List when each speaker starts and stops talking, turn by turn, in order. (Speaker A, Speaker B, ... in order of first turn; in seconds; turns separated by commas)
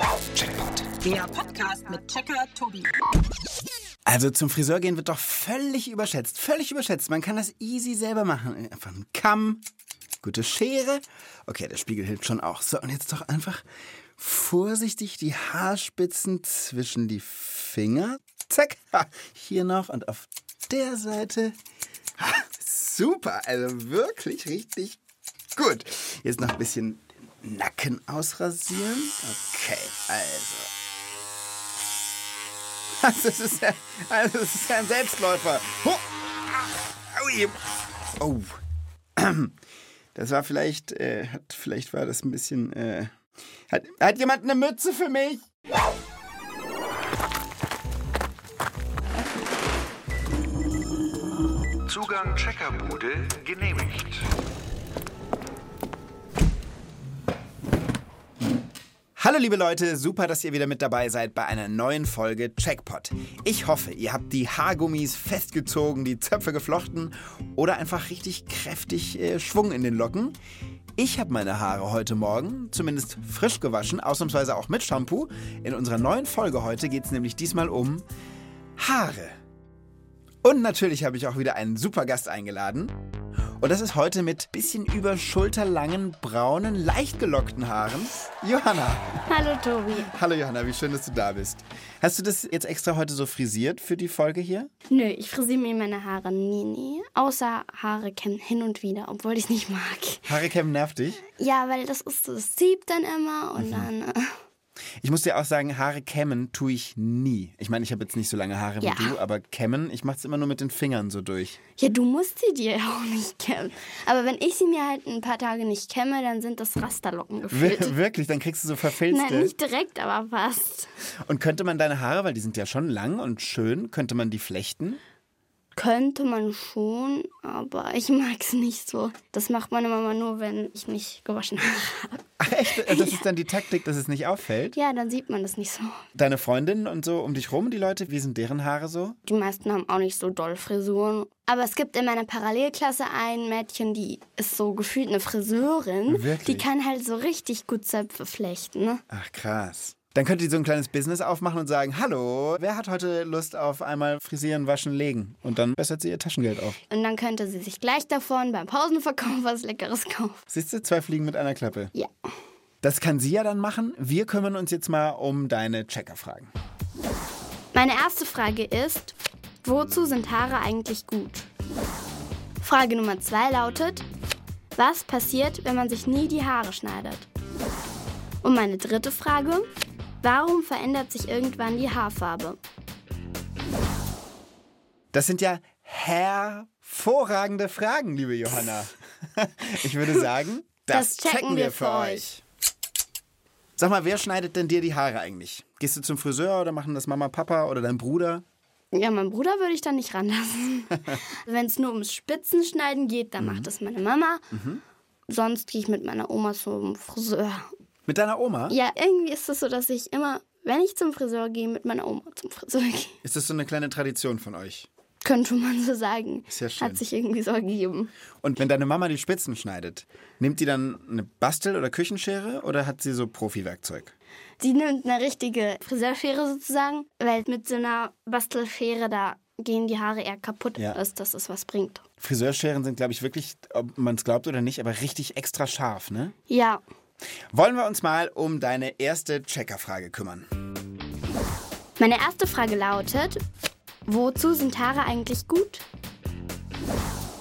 Speaker A: 0.3-0.9, Speaker B: 1.0-3.0, Speaker A: 4.0-9.6, Speaker A: 10.2-13.6, Speaker A: 14.2-21.6, Speaker A: 22.2-25.0, Speaker A: 25.6-30.7, Speaker A: 33.0-36.0, Speaker A: 37.1-37.6, Speaker A: 38.2-38.6, Speaker A: 39.1-39.6, Speaker A: 40.1-43.1, Speaker A: 43.7-45.4, Speaker C: 51.9-54.3, Speaker A: 59.2-70.4, Speaker A: 71.0-78.0, Speaker A: 78.8-79.3, Speaker A: 80.4-83.0, Speaker A: 83.6-89.2, Speaker D: 89.3-90.1, Speaker A: 90.0-94.7, Speaker D: 94.9-100.3, Speaker A: 100.2-101.2, Speaker D: 101.3-104.4, Speaker A: 103.6-103.9, Speaker A: 105.0-111.6, Speaker D: 108.8-109.1, Speaker D: 111.8-118.0, Speaker A: 117.5-119.5, Speaker D: 119.1-120.9, Speaker A: 121.2-125.0, Speaker D: 125.8-133.2, Speaker A: 132.4-134.8, Speaker D: 134.7-136.0, Speaker A: 136.1-139.2, Speaker D: 139.2-149.0, Speaker A: 146.1-146.7, Speaker A: 149.1-156.8, Speaker D: 156.9-160.4, Speaker A: 160.5-161.9, Speaker A: 162.8-166.5, Speaker D: 167.7-171.5, Speaker D: 172.6-174.1, Speaker D: 174.8-177.3, Speaker D: 178.4-179.7, Speaker D: 180.2-182.6, Speaker A: 185.1-192.4, Speaker D: 190.9-192.2, Speaker A: 193.8-198.4, Speaker D: 198.9-204.5, Speaker A: 203.4-203.7, Speaker A: 204.5-204.8, Speaker D: 205.3-207.7, Speaker A: 208.1-208.8, Speaker D: 208.7-213.2, Speaker A: 213.2-214.9, Speaker D: 215.2-218.1, Speaker A: 216.5-217.0, Speaker A: 218.4-224.1, Speaker D: 224.6-232.0, Speaker A: 232.2-236.3, Speaker D: 236.5-236.8, Speaker A: 237.5-240.5, Speaker D: 242.0-243.4, Speaker D: 244.1-245.8